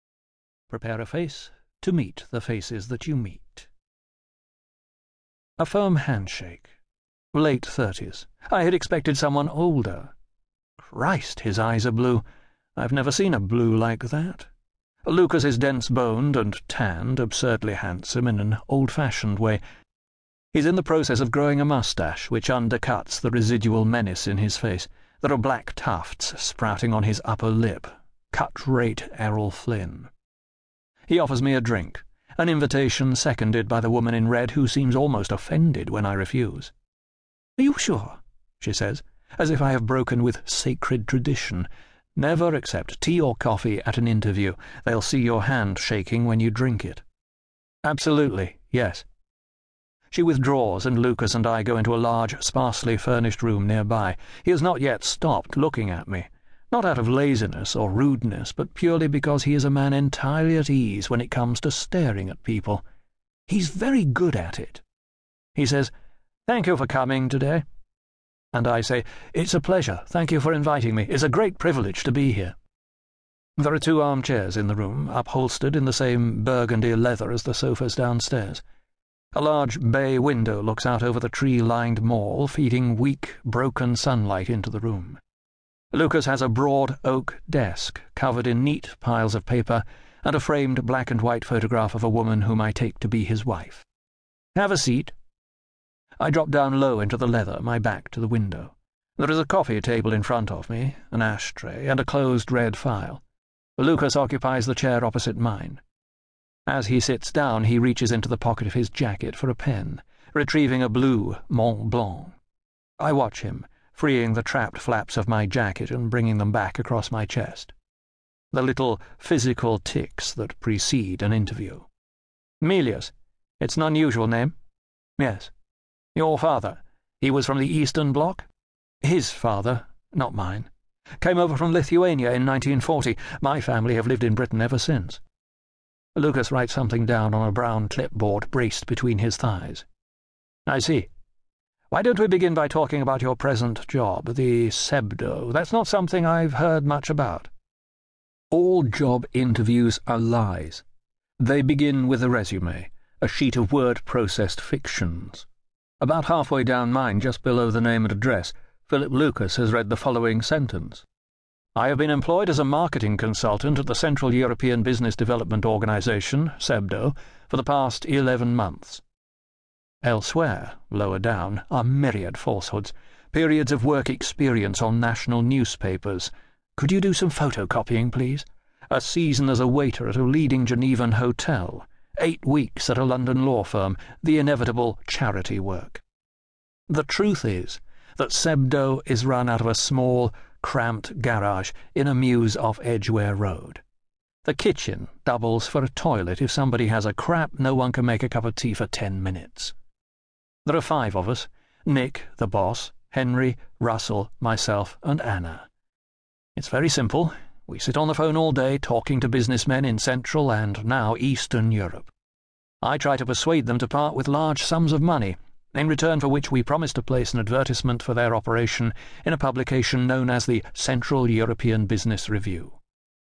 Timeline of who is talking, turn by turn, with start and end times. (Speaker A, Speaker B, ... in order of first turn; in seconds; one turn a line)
Speaker A: 0.7-3.7
Speaker A: 5.6-6.7
Speaker A: 7.3-10.1
Speaker A: 10.8-12.2
Speaker A: 12.8-14.5
Speaker A: 15.0-19.6
Speaker A: 20.5-30.1
Speaker A: 31.1-36.7
Speaker A: 37.6-47.0
Speaker A: 47.8-49.0
Speaker A: 50.1-62.8
Speaker A: 63.5-64.8
Speaker A: 65.5-65.9
Speaker A: 66.5-67.6
Speaker A: 68.5-72.5
Speaker A: 73.6-78.6
Speaker A: 79.3-85.2
Speaker A: 85.9-93.8
Speaker A: 94.5-95.1
Speaker A: 96.2-103.2
Speaker A: 103.8-105.8
Speaker A: 106.7-112.4
Speaker A: 113.0-117.7
Speaker A: 118.5-121.9
Speaker A: 122.6-124.5
Speaker A: 125.2-125.5
Speaker A: 126.1-128.5
Speaker A: 129.0-130.7
Speaker A: 131.2-135.2
Speaker A: 136.2-139.8
Speaker A: 140.7-141.1
Speaker A: 141.9-147.5
Speaker A: 148.5-150.8
Speaker A: 151.4-155.5
Speaker A: 156.0-161.0
Speaker A: 161.7-169.0
Speaker A: 170.0-186.0
Speaker A: 186.9-193.8
Speaker A: 194.4-199.7
Speaker A: 200.6-205.7
Speaker A: 206.6-212.1
Speaker A: 212.8-222.8